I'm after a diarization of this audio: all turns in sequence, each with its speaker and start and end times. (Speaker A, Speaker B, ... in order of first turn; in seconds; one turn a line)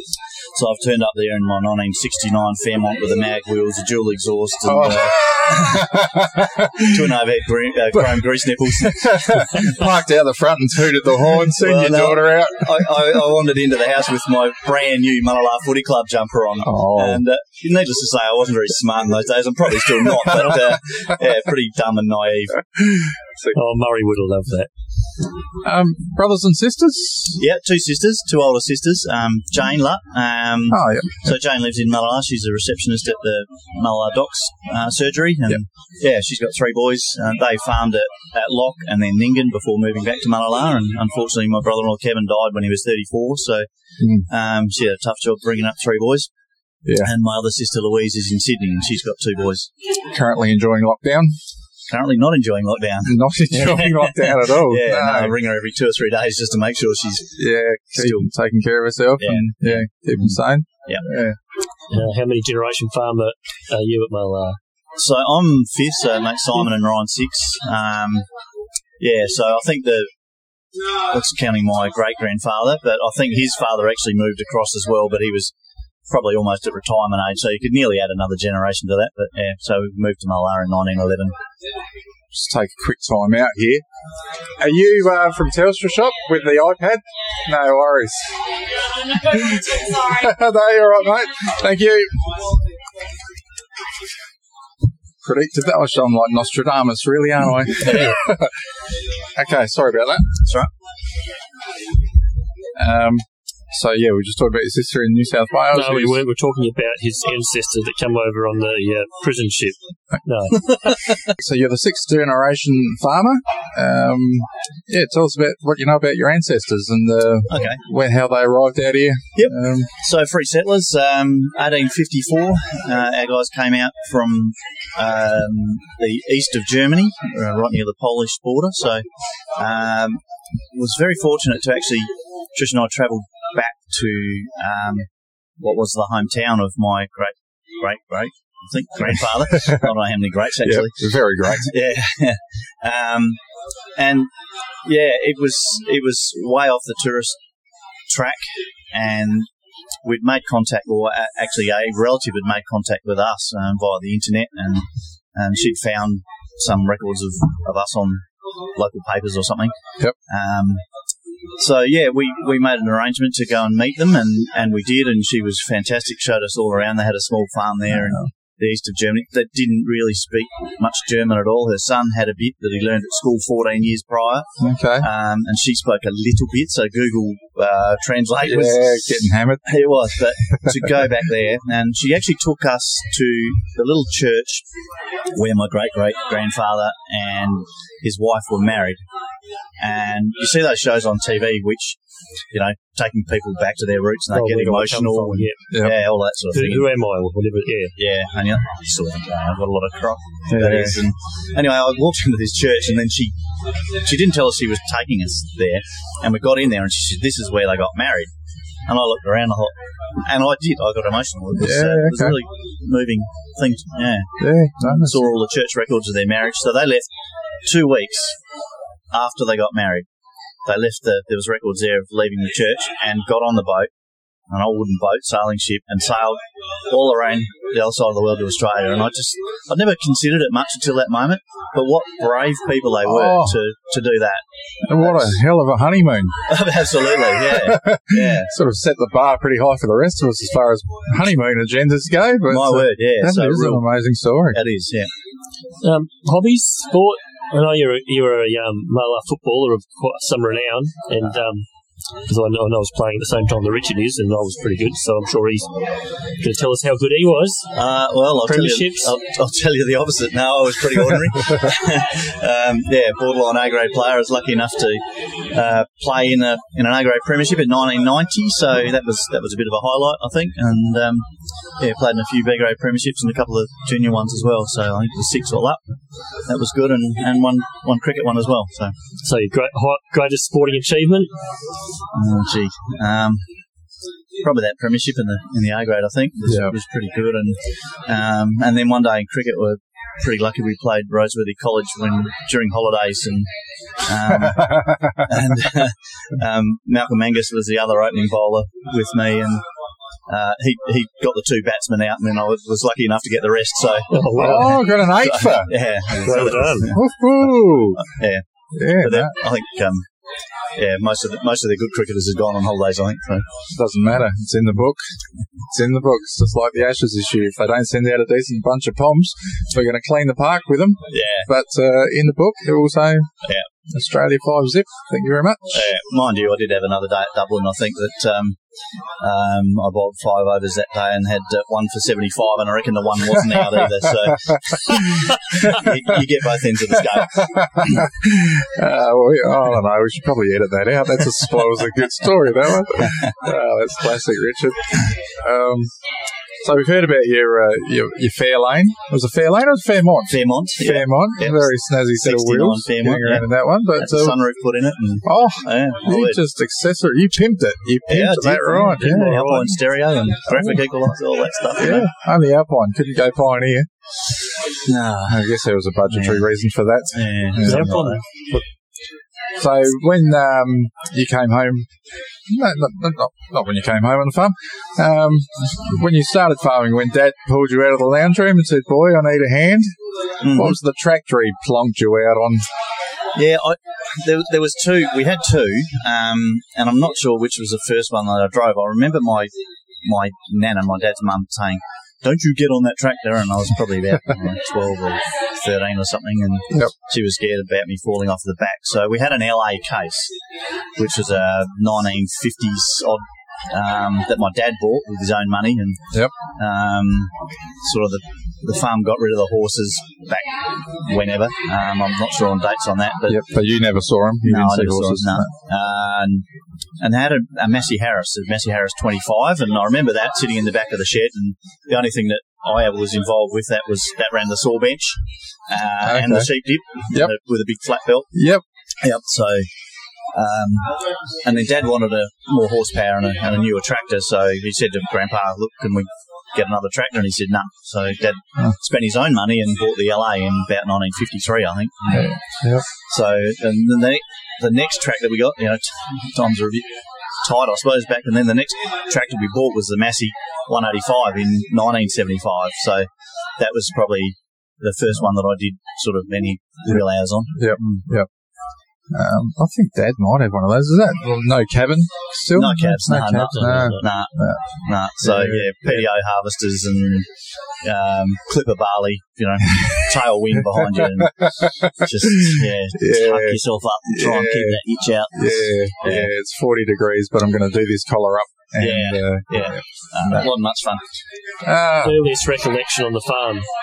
Speaker A: 0.5-5.8
Speaker B: 4.6-7.2
Speaker A: 6.9-9.7
Speaker B: 7.9-12.9
Speaker A: 11.6-22.6
Speaker B: 16.6-17.2
Speaker B: 23.0-23.6
Speaker C: 23.5-24.7
Speaker B: 25.6-27.4
Speaker A: 27.4-46.3
Speaker B: 30.7-31.3
Speaker B: 44.0-44.3
Speaker B: 46.8-47.1
Speaker A: 47.0-49.7
Speaker B: 50.1-51.4
Speaker A: 51.9-58.3
Speaker B: 53.0-55.3
Speaker B: 57.4-61.4
Speaker A: 59.2-61.0
Speaker C: 61.9-64.6
Speaker A: 65.0-68.3
Speaker A: 69.0-70.1
Speaker A: 71.1-75.5
Speaker A: 76.1-81.3
Speaker B: 82.3-83.8
Speaker B: 84.6-88.3
Speaker B: 89.1-92.5
Speaker B: 95.2-98.6
Speaker A: 97.8-98.2
Speaker B: 99.3-100.3
Speaker A: 100.4-100.7
Speaker B: 102.8-106.2
Speaker C: 105.7-111.0
Speaker A: 110.6-111.2
Speaker B: 111.3-119.9
Speaker A: 117.5-117.8
Speaker A: 119.3-143.4
Speaker B: 139.1-139.9
Speaker B: 140.6-141.7
Speaker A: 143.9-144.3
Speaker A: 144.8-147.4
Speaker A: 148.1-149.5
Speaker A: 150.0-160.8
Speaker A: 161.6-184.7
Speaker B: 167.9-168.3
Speaker B: 174.6-175.1
Speaker B: 178.4-180.9
Speaker A: 185.3-189.0
Speaker A: 189.8-192.0
Speaker A: 192.5-196.9
Speaker C: 194.3-195.6
Speaker B: 195.7-195.9
Speaker C: 196.5-197.9
Speaker A: 198.0-203.3
Speaker B: 200.5-201.0
Speaker A: 204.0-208.3
Speaker A: 208.8-217.1
Speaker B: 211.6-212.4
Speaker B: 214.4-215.2
Speaker A: 217.6-218.4
Speaker A: 219.1-220.1
Speaker A: 220.6-223.9
Speaker A: 224.5-235.4
Speaker B: 233.0-233.6
Speaker B: 234.9-236.4
Speaker A: 236.5-238.5
Speaker B: 237.3-244.6
Speaker A: 242.5-243.8
Speaker A: 244.5-245.1
Speaker C: 245.8-251.7
Speaker C: 252.2-255.7
Speaker C: 256.4-257.7
Speaker A: 257.7-275.8
Speaker C: 258.4-259.1
Speaker A: 276.4-278.9
Speaker C: 279.2-281.3
Speaker A: 282.1-283.5
Speaker A: 284.4-299.7
Speaker B: 286.5-286.7
Speaker B: 294.3-295.4
Speaker A: 300.3-310.1
Speaker C: 304.1-304.9
Speaker B: 304.3-308.0
Speaker C: 306.1-307.0
Speaker B: 308.7-309.3
Speaker A: 310.7-313.4
Speaker B: 313.7-315.0
Speaker B: 315.6-323.3
Speaker A: 321.1-321.5
Speaker B: 323.9-325.9
Speaker A: 325.7-328.6
Speaker A: 329.2-338.0
Speaker B: 333.7-334.9
Speaker B: 337.1-345.9
Speaker A: 343.0-343.3
Speaker B: 346.6-354.4
Speaker A: 350.3-356.4
Speaker B: 355.2-359.7
Speaker A: 358.1-362.1
Speaker C: 359.0-359.8
Speaker B: 361.8-363.9
Speaker A: 364.9-365.4
Speaker B: 365.3-368.1
Speaker A: 366.1-366.4
Speaker A: 367.1-368.2
Speaker C: 367.6-368.3
Speaker B: 369.6-371.9
Speaker B: 372.5-379.9
Speaker A: 380.4-380.8
Speaker B: 380.5-382.6
Speaker A: 383.4-389.5
Speaker A: 390.0-400.3
Speaker A: 400.9-413.4
Speaker B: 413.3-415.5
Speaker A: 414.4-416.5
Speaker A: 417.0-428.3
Speaker B: 426.0-426.5
Speaker B: 428.3-428.6
Speaker A: 429.0-429.7
Speaker A: 430.3-458.1
Speaker B: 442.1-442.8
Speaker B: 457.5-458.3
Speaker B: 459.1-466.0
Speaker A: 462.5-476.3
Speaker B: 471.0-474.8
Speaker B: 475.3-480.4
Speaker A: 478.8-481.0
Speaker B: 481.6-482.2
Speaker C: 482.0-483.6